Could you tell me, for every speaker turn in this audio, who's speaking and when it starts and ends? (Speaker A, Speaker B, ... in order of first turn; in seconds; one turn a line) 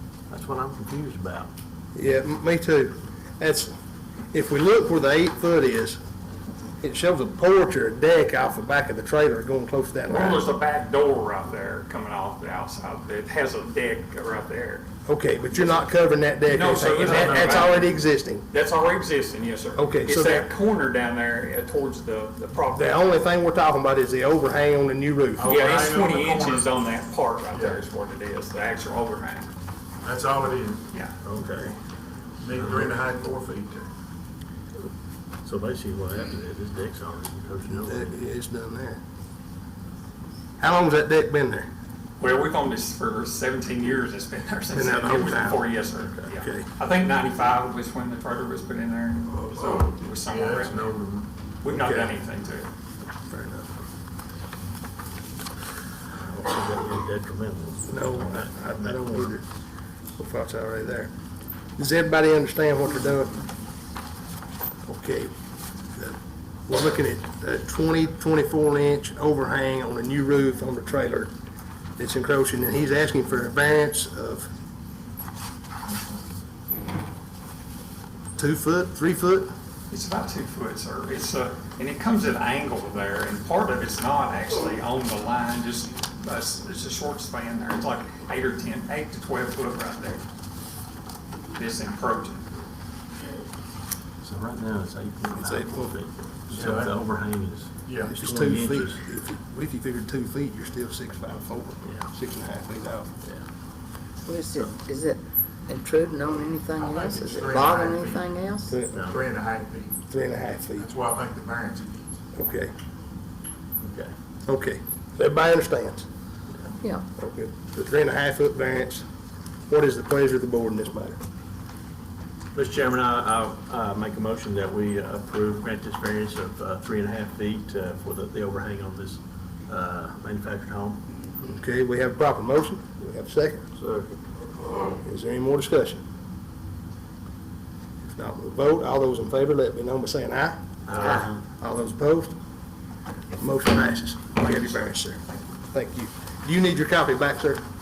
Speaker A: 0.3-1.5
Speaker B: 1.9-3.7
Speaker B: 4.3-6.0
Speaker B: 6.8-10.5
Speaker C: 10.1-14.8
Speaker B: 15.1-18.5
Speaker C: 15.5-15.9
Speaker C: 16.4-17.9
Speaker D: 17.0-17.7
Speaker C: 18.5-23.1
Speaker B: 19.8-20.5
Speaker B: 22.7-25.5
Speaker D: 25.4-26.7
Speaker C: 25.4-29.5
Speaker D: 27.5-27.8
Speaker D: 30.0-30.9
Speaker A: 31.2-31.8
Speaker D: 32.4-33.9
Speaker A: 35.5-38.2
Speaker B: 37.7-39.0
Speaker B: 40.6-41.7
Speaker C: 42.2-50.9
Speaker B: 44.7-45.7
Speaker B: 46.3-46.7
Speaker D: 49.5-51.3
Speaker C: 51.6-52.7
Speaker B: 51.7-52.2
Speaker B: 53.2-53.7
Speaker A: 56.1-59.3
Speaker B: 57.9-59.5
Speaker B: 60.2-61.1
Speaker B: 61.8-63.5
Speaker B: 64.9-65.3
Speaker B: 66.7-71.3
Speaker B: 72.0-74.5
Speaker B: 78.4-79.5
Speaker C: 79.9-90.2
Speaker C: 91.5-92.5
Speaker A: 94.2-99.0
Speaker B: 95.3-96.0
Speaker D: 96.5-97.0
Speaker D: 97.8-98.2
Speaker B: 98.0-103.1
Speaker E: 104.3-108.8
Speaker D: 106.8-108.2
Speaker B: 108.7-109.1
Speaker A: 108.9-109.2
Speaker D: 109.1-110.0
Speaker B: 110.1-110.9
Speaker D: 110.8-112.1
Speaker B: 112.3-112.7
Speaker A: 113.8-114.1
Speaker B: 114.5-116.1
Speaker E: 116.8-117.1
Speaker B: 117.2-119.0
Speaker B: 119.7-121.2
Speaker A: 122.5-131.0
Speaker B: 131.4-133.7
Speaker A: 133.8-134.1
Speaker B: 135.0-136.0
Speaker B: 138.1-142.3
Speaker A: 140.9-141.4
Speaker B: 143.4-145.2
Speaker C: 144.4-145.5
Speaker B: 145.7-147.6